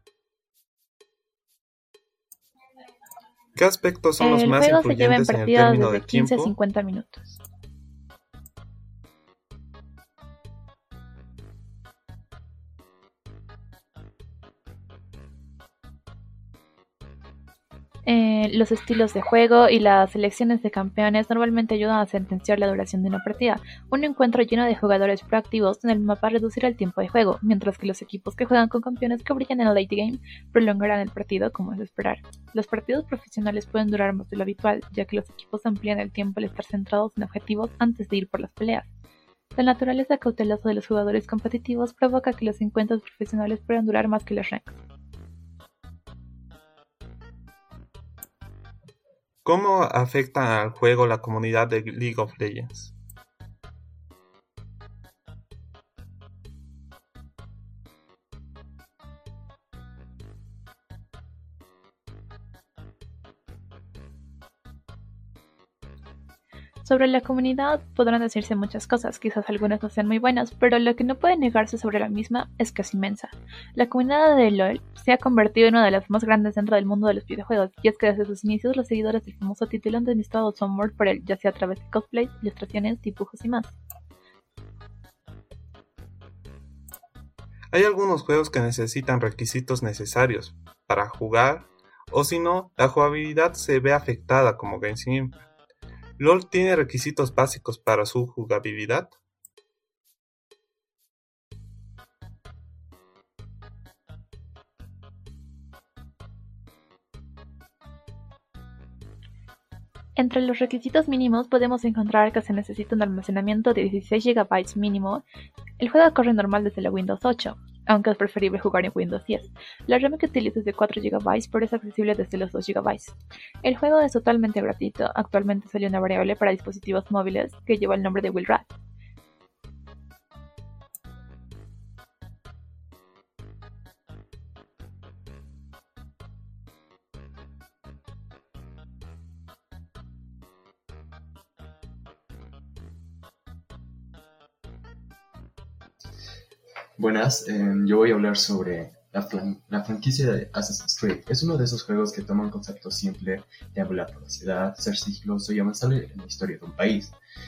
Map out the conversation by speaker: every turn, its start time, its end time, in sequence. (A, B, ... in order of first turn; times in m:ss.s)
0:03.6-0:06.5 A
0:04.2-0:07.4 B
0:18.0-0:38.9 B
0:39.6-0:44.8 B
0:49.4-0:52.9 A
1:06.8-1:23.7 B
1:27.7-1:35.4 A
1:36.2-1:39.1 A
1:50.2-1:55.2 B
1:55.8-2:08.7 B
2:27.0-2:37.1 C